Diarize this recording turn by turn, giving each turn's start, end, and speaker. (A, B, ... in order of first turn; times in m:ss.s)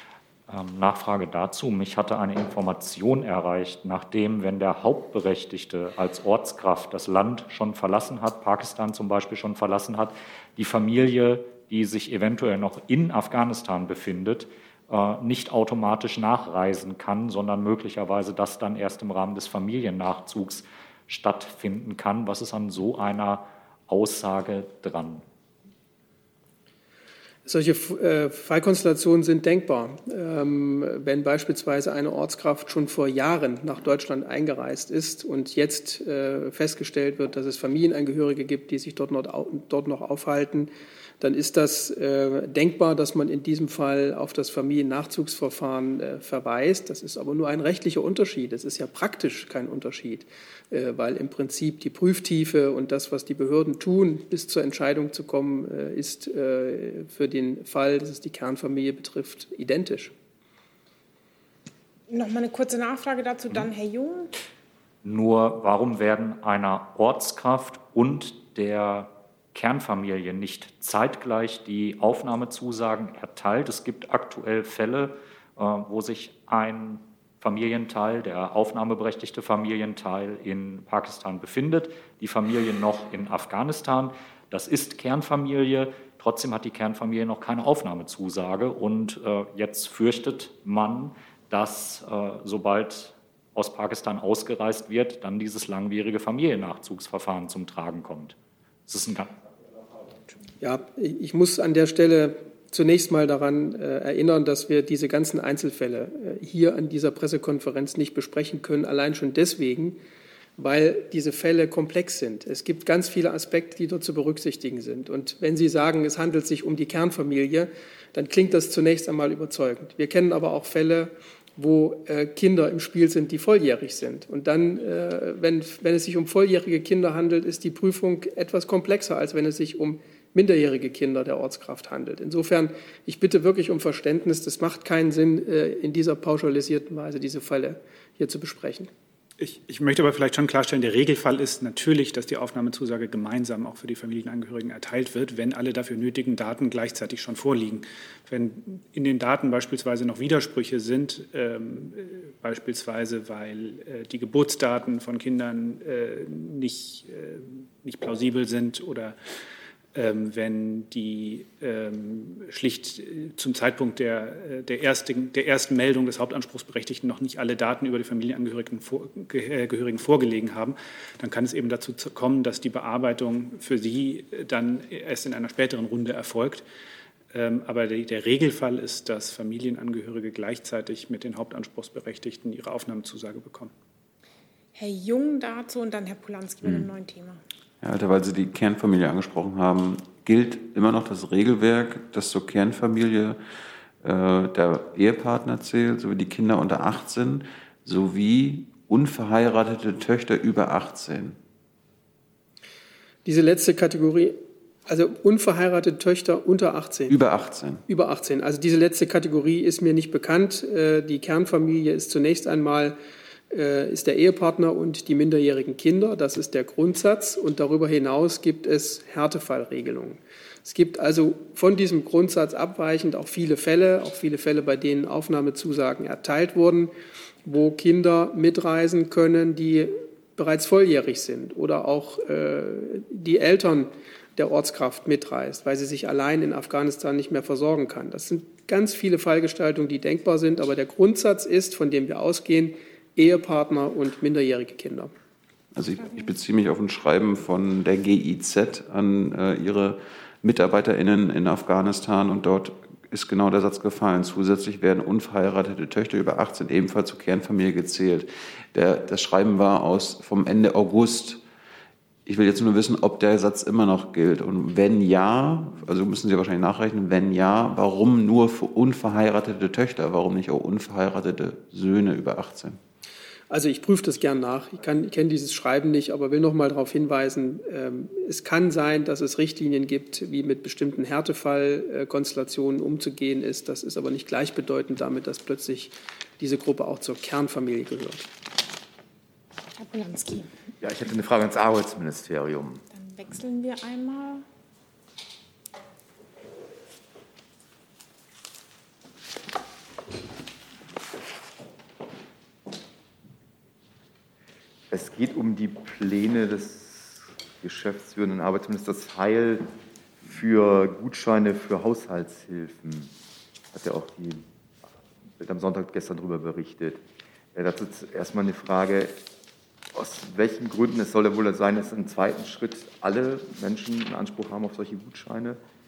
0:00.5-0:25.2 A
0:27.4-1:00.1 B
1:02.1-1:04.3 C
1:05.0-1:38.4 A
1:38.9-1:39.3 A
1:40.6-1:50.0 B
1:50.6-2:18.9 B
2:19.4-2:39.2 D
2:39.9-2:56.6 D
2:57.3-3:03.7 D
3:04.8-3:07.4 C
3:07.8-3:13.4 E
3:14.0-3:21.4 E
3:23.2-3:27.2 B
3:27.1-3:27.8 E
3:27.9-3:33.0 B
3:33.5-3:46.9 B
3:47.4-4:05.1 B
4:05.7-4:21.4 E
4:22.2-4:32.8 E
4:33.5-4:48.3 B
4:49.8-4:50.5 C
4:50.8-4:52.8 F
4:52.9-4:54.4 C
5:04.9-5:09.7 F
5:10.2-5:13.1 F
5:13.7-5:14.4 F
5:15.4-5:17.0 F
5:17.5-5:19.1 F
5:19.9-5:25.6 F